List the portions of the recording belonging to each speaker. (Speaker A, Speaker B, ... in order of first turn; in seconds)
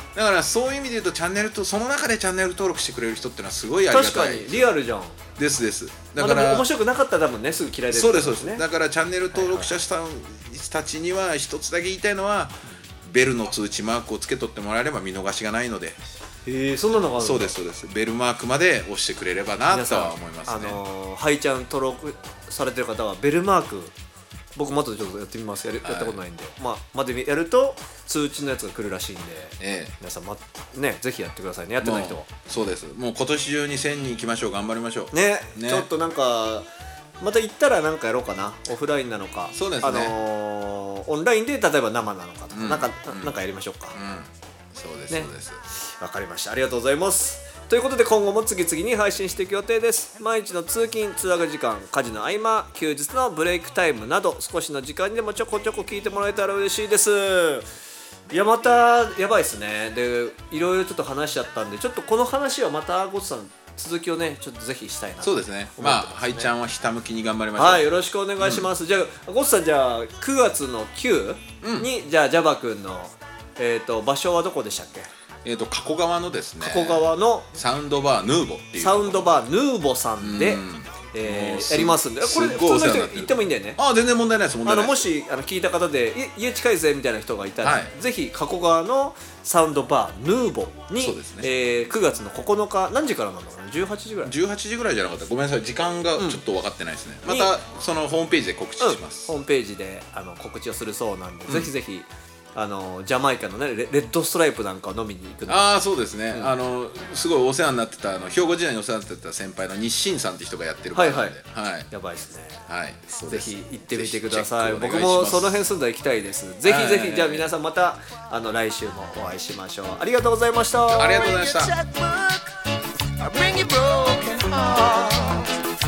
Speaker A: 0.1-4.7, 5.4-6.7, 7.9-16.0, 17.2-20.8, 25.8-26.2, 29.6-29.9, 31.8-35.9, 39.5-40.1, 42.5-43.4, 43.9-45.6, 65.2-68.7, 71.6-71.9, 75.4-79.4, 80.2-85.0, 87.6-87.9, 91.0-91.5, 94.2-99.3, 105.5-111.9, 112.7-115.6, 116.6-117.5, 120.9-121.7
Speaker B: 3.9-5.2, 6.2-8.6, 9.3-9.8, 16.4-17.5, 19.7-23.9, 24.6-32.3, 35.1-36.7, 37.2-44.0, 45.1-57.7, 58.3-66.5, 67.5-75.1, 76.6-77.5, 78.8-83.8, 84.6-94.3, 97.3-97.5, 98.8-105.7, 110.9-111.4, 111.9-112.7, 113.2-121.2
Speaker C: 120.9-122.5, 123.2-125.5